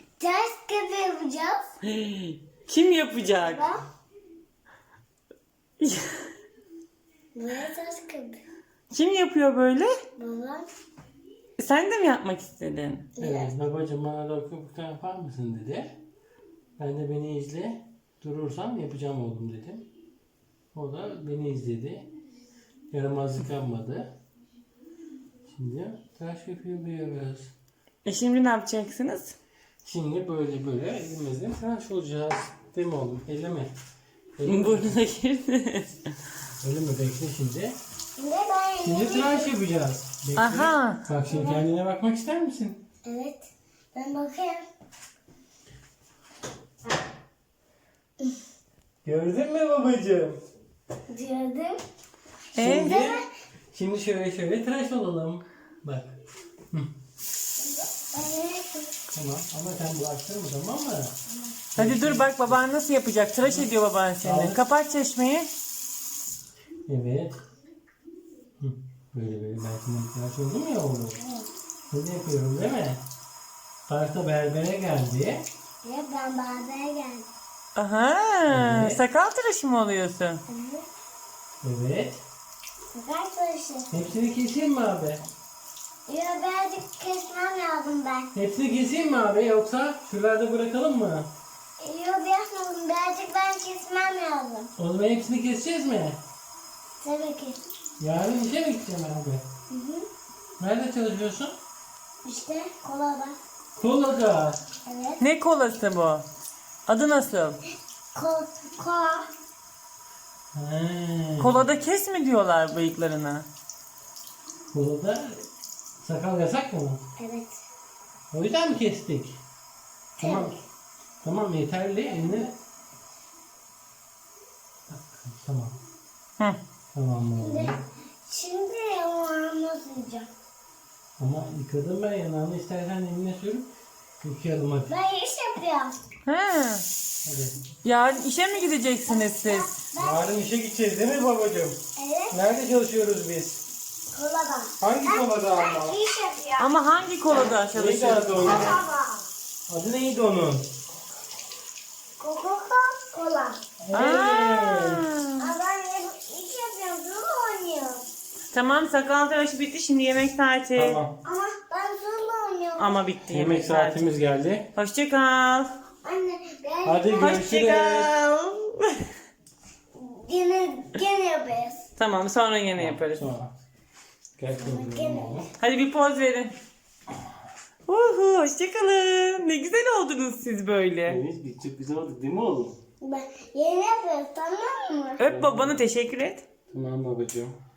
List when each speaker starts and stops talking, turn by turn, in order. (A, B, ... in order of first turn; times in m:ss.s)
0:00.2-0:01.6 A
0:01.8-0:03.6 B
0:03.4-0:03.8 A
0:05.8-0:06.3 B
0:07.3-0:08.4 A
0:08.9-0:09.9 B
0:10.2-0:10.7 A
0:11.6-0:13.1 B
0:13.2-0:16.0 C
0:13.2-0:13.5 A
0:16.8-0:19.9 C
0:20.7-0:22.1 C
0:22.9-0:24.2 C
0:25.5-0:27.5 C
0:28.0-0:29.4 B
0:29.8-0:33.7 C
0:34.4-0:35.0 C
0:34.4-0:35.9 B
0:36.6-0:37.8 C
0:38.2-0:39.5 A
0:38.8-0:42.8 C
0:40.4-0:41.0 B
0:41.3-0:41.6 A
0:43.0-0:44.6 A
0:49.0-0:50.4 C
0:51.1-0:51.8 A
0:52.5-0:53.1 B
0:52.6-0:56.2 C
0:52.8-0:53.2 A
0:57.6-0:58.9 A
0:59.1-1:01.1 C
1:01.8-1:02.6 C
1:01.8-1:05.5 B
1:03.4-1:04.6 C
1:06.9-1:07.4 C
1:08.6-1:11.2 C
1:11.2-1:11.4 A
1:11.9-1:13.0 C
1:13.9-1:15.5 C
1:15.8-1:17.3 A
1:17.8-1:20.4 B
1:18.5-1:19.0 C
1:20.5-1:20.9 A
1:21.6-1:22.2 C
1:22.9-1:23.9 A
1:23.9-1:25.2 C
1:26.1-1:28.3 A
1:28.3-1:31.3 C
1:31.8-1:34.7 A
1:34.8-1:36.2 C
1:37.0-1:37.6 A
1:38.0-1:39.4 C
1:39.7-1:40.1 A
1:40.6-1:41.6 C
1:42.2-1:43.4 A
1:43.8-1:44.6 C
1:44.9-1:45.2 A
1:45.2-1:46.2 B
1:46.9-1:47.6 B
1:48.1-1:49.3 A
1:50.6-1:51.6 C
1:51.4-1:53.5 B
1:54.7-1:55.4 C
1:56.0-1:57.0 C
1:57.2-1:57.6 A
1:58.3-1:59.4 C
2:00.2-2:00.6 A
2:00.2-2:00.6 C
2:01.2-2:02.6 C
2:04.9-2:05.8 C
2:06.9-2:07.8 C
2:07.4-2:07.7 A
2:08.3-2:10.3 A
2:11.2-2:13.7 C
2:14.2-2:14.9 C
2:14.9-2:15.9 A
2:16.2-2:16.8 B
2:17.2-2:17.6 C
2:17.8-2:19.8 B
2:19.1-2:20.4 A
2:20.0-2:21.8 C
2:22.0-2:22.3 A
2:22.3-2:23.6 C
2:24.1-2:26.7 A
2:24.8-2:26.0 C
2:26.6-2:28.6 B
2:27.7-2:28.8 C
2:28.5-2:29.2 A
2:29.7-2:30.7 C
2:32.2-2:33.6 A
2:33.8-2:35.0 C
2:33.9-2:35.5 B
2:35.4-2:38.1 A
2:38.5-2:41.0 B
2:40.8-2:41.2 C
2:41.2-2:42.9 A
2:42.8-2:44.1 B
2:43.3-2:44.7 C
2:44.8-2:45.7 B
2:46.0-2:47.4 A
2:46.8-2:48.1 C
2:47.2-2:49.0 B
2:50.0-2:51.8 A
2:52.0-2:53.3 B
2:52.8-2:53.5 C
2:54.4-2:55.5 C
2:54.6-2:55.5 A
2:55.6-2:56.5 B
2:57.9-3:01.2 B
3:01.1-3:02.8 C
3:03.0-3:05.2 A
3:05.2-3:06.4 B
3:05.2-3:05.8 C
3:06.7-3:07.6 C